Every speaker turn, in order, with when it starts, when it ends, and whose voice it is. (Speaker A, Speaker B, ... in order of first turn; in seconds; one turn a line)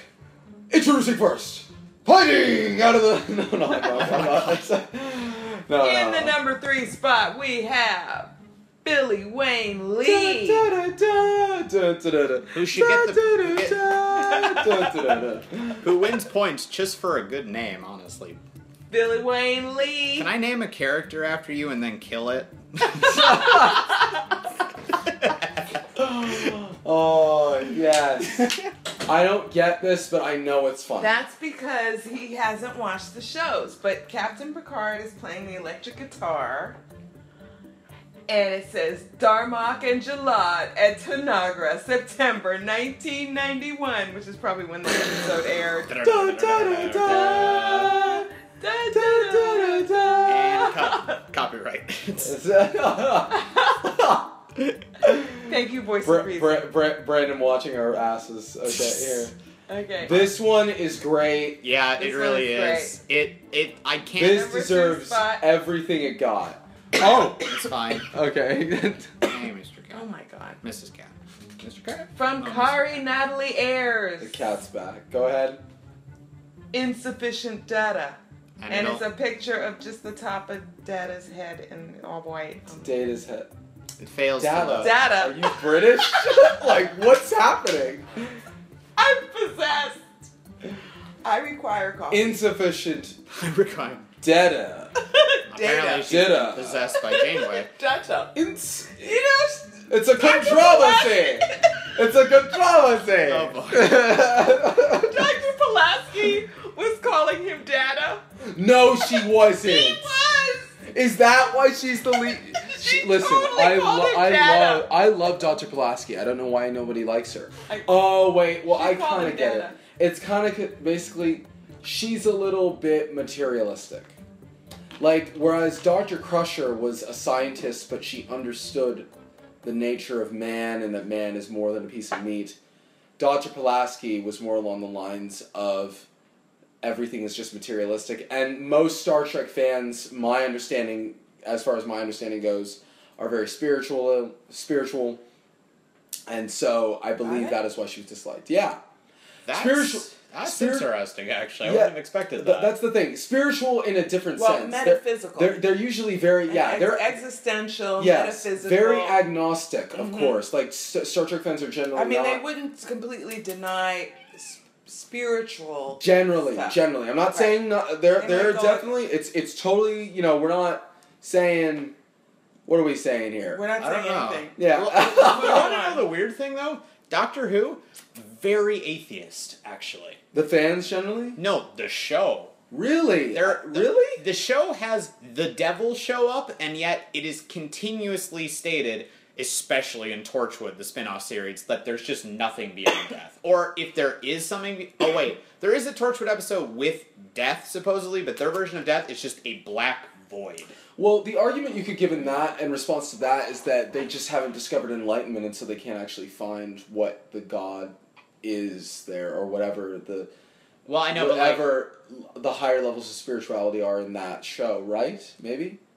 Speaker A: 0.7-6.4
Speaker B: 3.9-4.6
Speaker C: 5.8-10.7
Speaker A: 10.1-15.9
Speaker B: 12.5-14.0
Speaker C: 14.2-14.6
Speaker B: 15.8-18.4
Speaker C: 18.9-20.3
Speaker B: 20.2-24.0
Speaker A: 26.0-31.2
Speaker C: 31.0-36.8
Speaker C: 38.3-46.0
Speaker B: 45.9-48.1
Speaker A: 46.0-48.3
Speaker C: 47.0-51.2
Speaker A: 48.9-50.7
Speaker B: 50.2-52.3
Speaker A: 52.2-54.4
Speaker C: 53.3-53.8
Speaker A: 55.0-55.4
Speaker C: 55.4-56.7
Speaker A: 56.0-59.4
Speaker C: 59.7-60.3
Speaker A: 60.0-61.6
Speaker B: 61.6-64.5
Speaker C: 62.0-63.0
Speaker A: 64.2-67.5
Speaker C: 64.2-65.5
Speaker B: 67.0-68.1
Speaker A: 68.1-69.4
Speaker B: 69.2-70.1
Speaker C: 69.9-70.6
Speaker B: 70.6-72.8
Speaker C: 72.1-74.5
Speaker A: 74.2-75.6
Speaker C: 76.7-83.0
Speaker B: 78.6-79.1
Speaker A: 82.8-83.5
Speaker B: 84.0-85.0
Speaker A: 84.4-88.1
Speaker C: 84.8-86.6
Speaker C: 89.0-90.1
Speaker C: 91.2-92.4
Speaker A: 92.1-93.2
Speaker B: 93.3-94.1
Speaker A: 94.2-94.9
Speaker C: 95.0-96.2
Speaker B: 95.5-97.7
Speaker A: 96.0-97.0
Speaker C: 97.0-98.4
Speaker A: 98.3-105.3
Speaker C: 98.9-102.0
Speaker B: 103.2-104.1
Speaker C: 104.8-108.2
Speaker A: 108.5-110.0
Speaker C: 109.0-110.8
Speaker A: 110.9-124.2
Speaker C: 112.5-114.9
Speaker C: 117.7-119.8
Speaker A: 125.0-129.1
Speaker A: 129.6-132.6
Speaker A: 133.2-136.1
Speaker A: 136.8-145.2
Speaker A: 146.3-148.8
Speaker C: 147.2-147.6
Speaker B: 149.5-152.7
Speaker A: 149.5-150.9
Speaker A: 151.6-157.1
Speaker C: 154.3-155.6
Speaker C: 156.4-159.3
Speaker A: 158.0-162.4
Speaker C: 159.9-160.4
Speaker C: 161.9-168.9
Speaker A: 166.0-171.9
Speaker A: 172.7-173.6
Speaker C: 173.5-176.1
Speaker B: 173.8-180.2
Speaker A: 174.6-175.7
Speaker A: 180.3-181.4
Speaker B: 181.4-182.5
Speaker A: 182.7-184.2
Speaker B: 183.3-200.8
Speaker A: 201.0-210.3
Speaker B: 210.9-211.8
Speaker A: 211.1-215.8